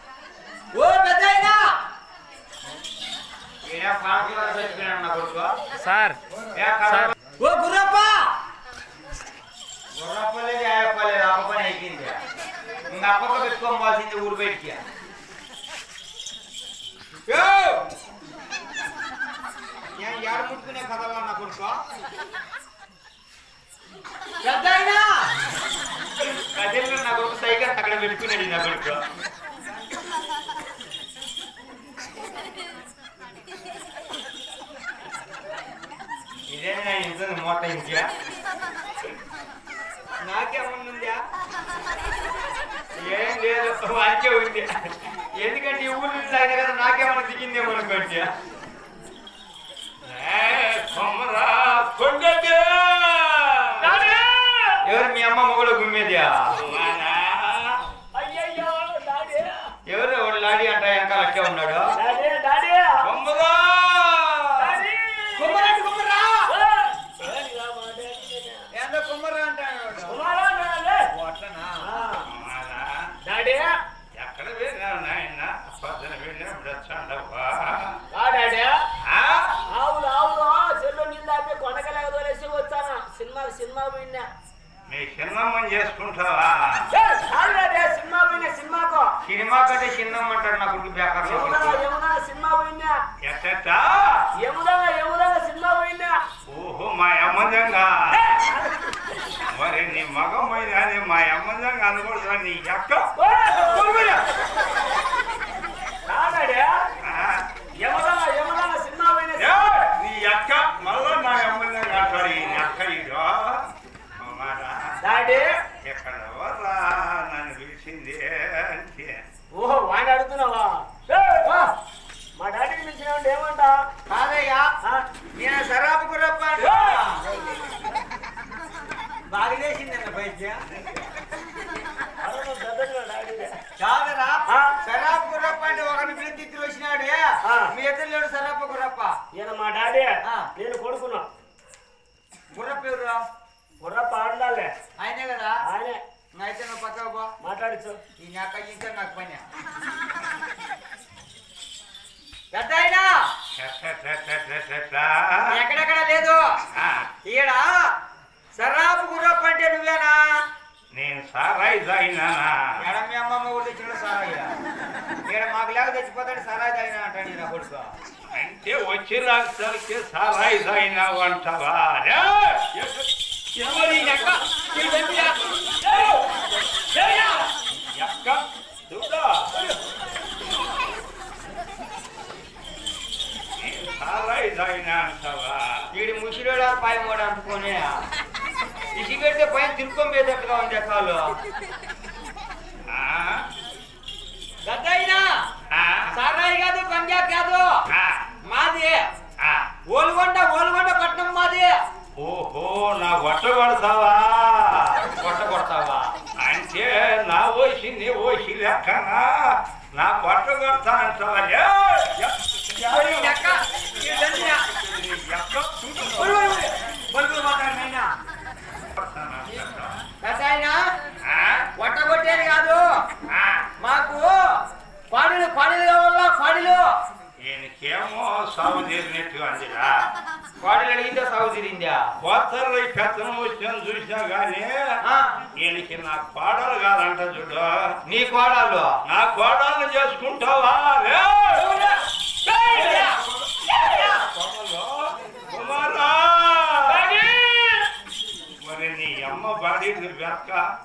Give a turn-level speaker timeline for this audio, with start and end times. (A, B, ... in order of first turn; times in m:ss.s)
0:00.7-0:01.7 A
0:03.6-0:05.5 A
0:05.8-0:06.2 B
0:06.5-0:08.3 A
0:10.0-0:12.2 A
0:12.9-0:14.8 A
0:17.3-0:17.8 A
0:20.0-0:21.8 A
0:24.4-0:25.3 A
0:26.5-0:29.0 A
0:36.5-0:38.1 A
0:40.2-0:41.2 A
0:43.0-0:44.7 A
0:45.4-0:48.3 A
0:50.0-0:54.0 C
0:53.8-0:54.8 B
0:54.8-0:56.6 A
0:56.6-0:57.8 C
0:58.1-0:59.7 B
0:59.9-1:02.0 A
1:02.0-1:03.0 B
1:03.0-1:04.8 C
1:04.6-1:05.8 B
1:05.4-1:06.5 A
1:06.5-1:08.6 B
1:08.7-1:10.2 A
1:10.1-1:11.1 B
1:11.1-1:11.9 A
1:11.8-1:12.3 B
1:12.2-1:12.9 C
1:13.2-1:13.7 B
1:14.2-1:18.0 C
1:18.1-1:18.8 B
1:19.0-1:19.6 C
1:19.7-1:24.3 B
1:24.9-1:26.9 C
1:26.9-1:29.1 B
1:29.2-1:31.8 A
1:31.2-1:33.0 B
1:33.2-1:34.3 C
1:34.4-1:36.2 B
1:36.5-1:38.2 C
1:38.1-1:38.8 B
1:39.5-1:44.2 C
1:43.2-1:44.1 B
1:46.1-1:46.7 B
1:47.0-1:47.4 C
1:47.8-1:49.6 B
1:49.4-1:53.7 C
1:54.2-1:55.0 C
1:55.0-1:55.5 B
1:55.8-1:59.2 C
1:59.5-2:01.5 B
2:01.4-2:01.7 A
2:02.4-2:03.8 B
2:04.1-2:04.7 A
2:05.3-2:07.2 A
2:06.6-2:07.2 B
2:09.3-2:10.8 A
2:12.2-2:13.6 B
2:13.8-2:19.2 A
2:14.5-2:14.7 B
2:19.3-2:21.3 B
2:20.2-2:20.5 A
2:22.5-2:23.2 A
2:23.8-2:24.7 B
2:25.0-2:25.6 A
2:25.6-2:26.0 B
2:26.3-2:27.3 A
2:27.4-2:28.0 B
2:28.2-2:29.4 A
2:32.5-2:33.1 A
2:33.6-2:35.4 C
2:35.5-2:36.4 A
2:36.7-2:37.1 C
2:37.2-2:37.7 A
2:38.6-2:40.2 A
2:40.9-2:42.5 C
2:42.8-2:44.5 A
2:45.2-2:47.9 A
2:48.3-2:53.0 C
2:53.6-2:55.4 A
2:53.7-2:54.3 C
2:56.0-2:56.2 B
2:57.0-2:57.3 A
2:57.9-2:59.5 C
3:03.6-3:05.8 C
3:05.9-3:08.0 A
3:09.0-3:11.4 A
3:12.9-3:13.4 C
3:14.6-3:15.2 A
3:15.7-3:16.1 C
3:16.1-3:17.7 A
3:17.9-3:18.2 C
3:18.4-3:19.0 A
3:19.9-3:21.8 A
3:22.2-3:25.0 C
3:25.0-3:26.1 A
3:26.4-3:36.6 C
3:32.8-3:34.6 A
3:36.2-3:38.1 A
3:38.9-3:40.0 C
3:40.2-3:40.8 A
3:41.2-3:41.7 C
3:41.8-3:42.8 A
3:43.3-3:43.7 C
3:43.8-3:44.4 A
3:45.1-3:46.8 A
3:47.4-3:50.1 C
3:50.6-3:52.0 A
3:52.2-3:54.9 C
3:55.6-3:57.7 C
3:58.0-3:58.9 A
3:59.1-4:01.7 C
4:01.5-4:02.0 A
4:02.4-4:03.2 B
4:02.7-4:07.1 C
4:03.8-4:04.2 B
4:06.9-4:07.9 B
4:08.6-4:10.6 C